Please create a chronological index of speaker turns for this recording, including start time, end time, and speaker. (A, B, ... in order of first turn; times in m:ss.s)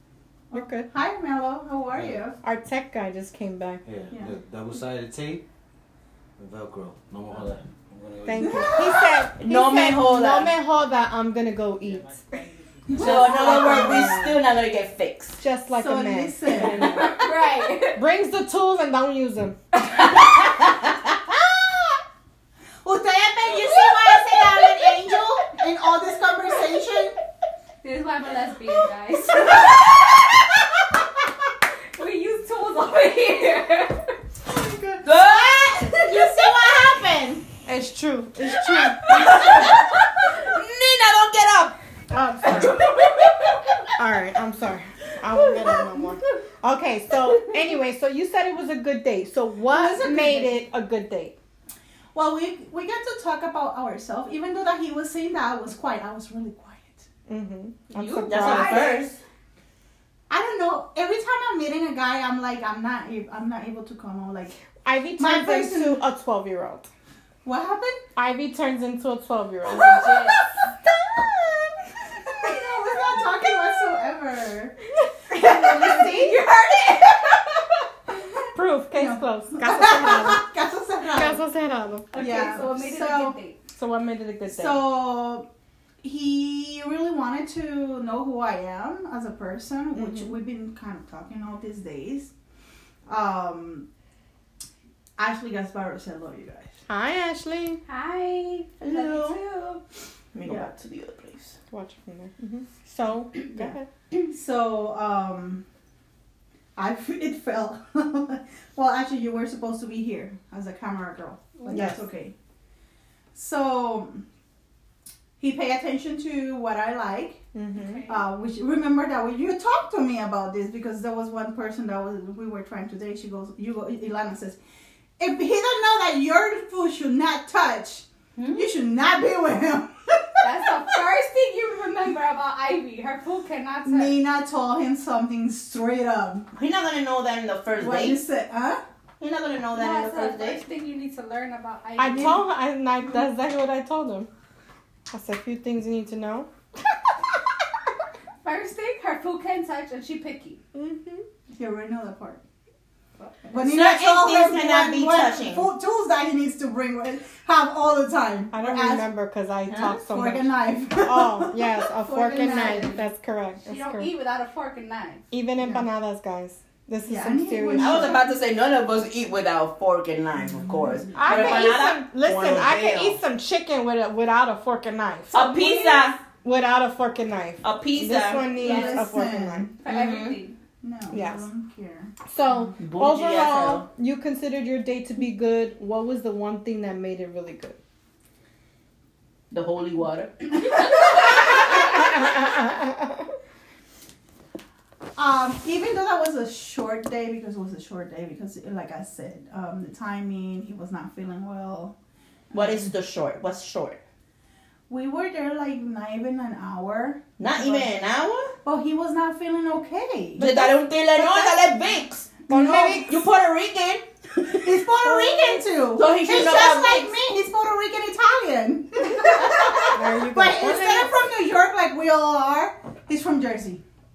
0:00.5-0:02.4 A
0:00.5-0:00.9 B
0:01.9-0:02.2 C
0:02.4-0:03.8 B
0:03.9-0:05.4 C
0:06.4-0:08.8 C
0:08.2-0:12.2 B
0:08.4-0:09.1 A
0:09.4-0:10.6 D
0:12.9-0:14.2 A
0:12.9-0:15.4 D
0:13.0-0:14.4 B
0:13.1-0:13.8 E
0:15.4-0:17.3 B
0:15.7-0:17.2 A
0:16.8-0:18.0 E
0:17.8-0:19.6 B
0:19.9-0:21.0 D
0:22.8-0:27.2 A
0:24.1-0:24.3 E
0:27.8-0:29.9 E
0:32.0-0:34.2 E
0:34.5-0:35.1 B
0:35.0-0:36.5 D
0:35.0-0:37.4 A
0:37.6-0:39.3 B
0:38.7-0:41.8 D
0:42.1-0:42.8 B
0:42.5-0:43.8 D
0:44.0-0:51.4 B
0:49.7-0:50.6 A
0:52.1-0:57.1 A
0:57.3-0:58.9 B
0:57.9-0:58.9 E
0:58.3-0:59.2 D
0:58.6-0:59.0 A
1:00.3-1:04.6 A
1:04.8-1:06.9 B
1:05.2-1:06.0 A
1:07.4-1:08.0 A
1:08.2-1:10.4 B
1:09.7-1:10.4 E
1:11.1-1:11.7 B
1:12.3-1:14.8 A
1:15.3-1:16.4 A
1:15.3-1:17.6 E
1:18.6-1:20.4 B
1:18.9-1:21.4 A
1:21.1-1:22.3 B
1:22.1-1:23.6 E
1:22.1-1:23.4 A
1:23.8-1:24.9 B
1:24.5-1:25.5 A
1:26.0-1:32.3 A
1:30.0-1:30.3 B
1:33.1-1:33.9 A
1:35.2-1:36.7 A
1:36.9-1:37.8 B
1:37.9-1:39.8 E
1:38.8-1:39.4 D
1:40.3-1:41.6 D
1:40.5-1:40.7 A
1:41.7-1:43.9 B
1:44.2-1:45.6 A
1:46.8-1:52.3 A
1:51.7-1:52.0 B
1:53.3-1:54.2 A
1:55.4-1:57.4 A
1:57.5-1:58.0 B
1:57.7-1:58.2 E
1:58.1-2:04.6 A
2:05.2-2:10.5 A
2:08.4-2:08.7 D
2:10.4-2:14.2 E
2:13.9-2:16.5 A
2:16.6-2:18.2 D
2:17.8-2:18.8 A
2:19.2-2:20.6 D
2:19.7-2:22.4 E
2:22.0-2:24.3 B
2:25.1-2:26.5 B
2:28.4-2:30.6 E
2:30.7-2:31.2 B
2:31.5-2:32.4 A
2:33.5-2:39.1 A
2:33.5-2:35.7 D
2:38.5-2:44.1 B
2:39.7-2:39.9 D
2:39.9-2:43.0 A
2:43.7-2:45.2 E
2:45.3-2:48.2 B
2:45.6-2:45.9 A
2:47.1-2:48.3 A
2:47.8-2:53.2 D
2:50.6-2:51.8 A
2:51.2-2:55.5 B
2:55.3-2:56.2 D
2:55.4-2:56.0 E
2:56.4-2:59.7 B
2:57.6-2:58.5 D
2:58.6-2:59.8 A
2:58.6-2:59.0 E
2:59.8-3:00.6 E
2:59.8-3:00.4 D
3:00.8-3:02.7 A
3:01.1-3:01.4 B
3:02.3-3:07.8 B
3:02.8-3:03.9 D
3:09.5-3:12.1 D
3:11.6-3:13.3 B
3:15.2-3:21.9 A
3:22.5-3:22.8 A
3:22.5-3:24.0 D
3:24.9-3:27.9 A
3:27.4-3:28.5 D
3:28.6-3:31.6 A
3:30.4-3:35.3 D
3:32.5-3:33.1 A
3:32.5-3:33.2 B
3:34.5-3:43.8 A
3:35.9-3:37.2 D
3:39.9-3:41.2 B